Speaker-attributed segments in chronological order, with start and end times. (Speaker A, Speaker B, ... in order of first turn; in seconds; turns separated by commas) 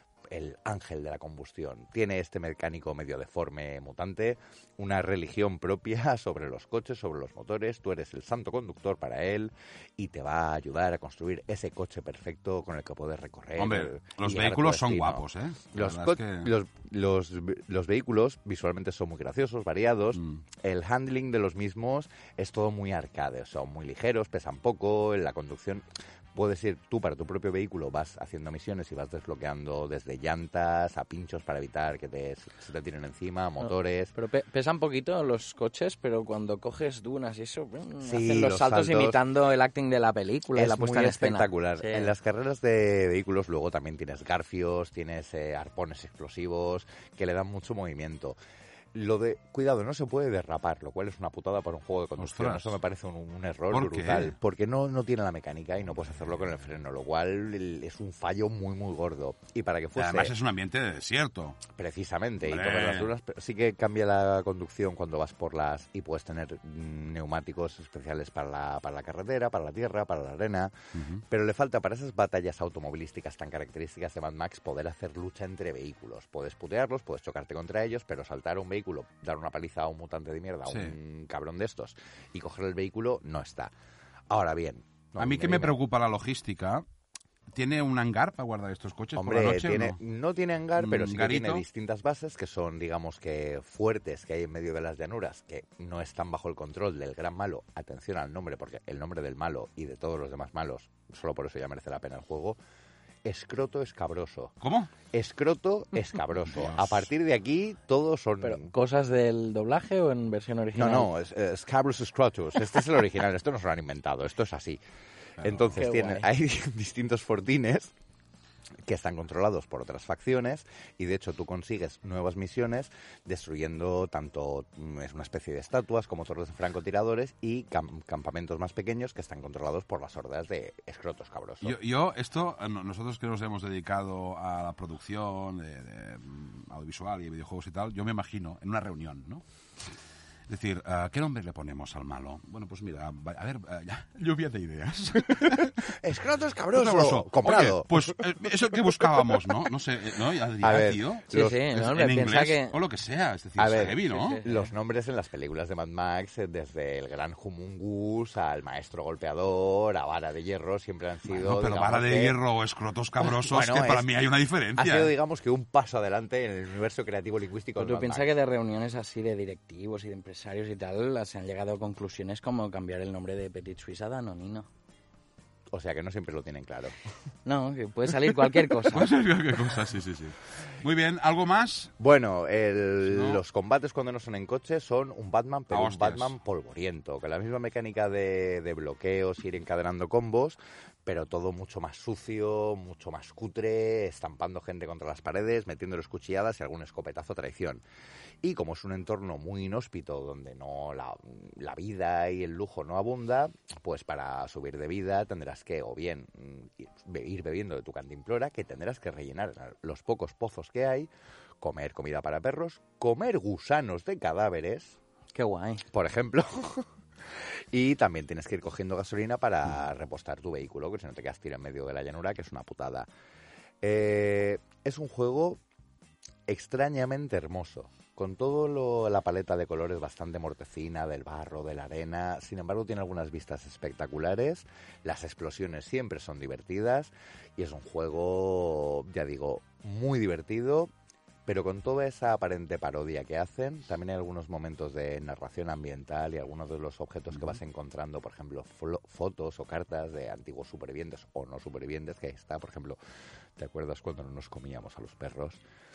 Speaker A: 0.3-15.2, Speaker B: 13.6-16.5, Speaker A: 15.7-34.1, Speaker B: 20.1-20.4, Speaker C: 33.6-42.1, Speaker A: 38.0-39.2, Speaker A: 40.5-48.4, Speaker A: 48.9-60.3, Speaker B: 52.2-52.7, Speaker B: 53.7-54.3, Speaker B: 60.0-61.6, Speaker A: 61.7-70.7, Speaker B: 62.5-63.1, Speaker B: 71.0-71.2, Speaker A: 71.3-83.7, Speaker B: 80.7-81.0, Speaker A: 84.3-85.8, Speaker B: 85.2-86.8, Speaker B: 87.5-90.0, Speaker A: 89.2-102.6, Speaker B: 90.8-91.6, Speaker A: 103.2-104.6, Speaker B: 104.6-104.9, Speaker A: 105.1-108.7, Speaker B: 106.5-107.1, Speaker C: 108.4-111.1, Speaker A: 110.8-114.8, Speaker B: 115.4-115.8, Speaker A: 115.4-117.9, Speaker C: 115.8-116.3, Speaker A: 118.8-131.8, Speaker B: 131.6-139.4, Speaker B: 140.5-145.8, Speaker A: 145.9-148.1, Speaker B: 146.7-154.4, Speaker A: 150.6-151.6, Speaker C: 151.3-152.8, Speaker A: 153.6-162.4, Speaker C: 154.0-154.7, Speaker B: 161.3-165.1, Speaker A: 163.2-164.1, Speaker A: 164.8-168.3, Speaker C: 167.8-174.7, Speaker A: 175.7-176.9, Speaker C: 177.4-179.1, Speaker B: 178.9-181.9, Speaker A: 182.0-197.8, Speaker B: 183.1-183.4, Speaker B: 185.7-186.3, Speaker A: 198.4-215.0, Speaker C: 215.3-215.8, Speaker A: 215.9-216.9, Speaker A: 217.7-223.1, Speaker A: 223.8-225.6, Speaker A: 226.5-240.9, Speaker A: 241.5-253.0, Speaker A: 253.6-255.6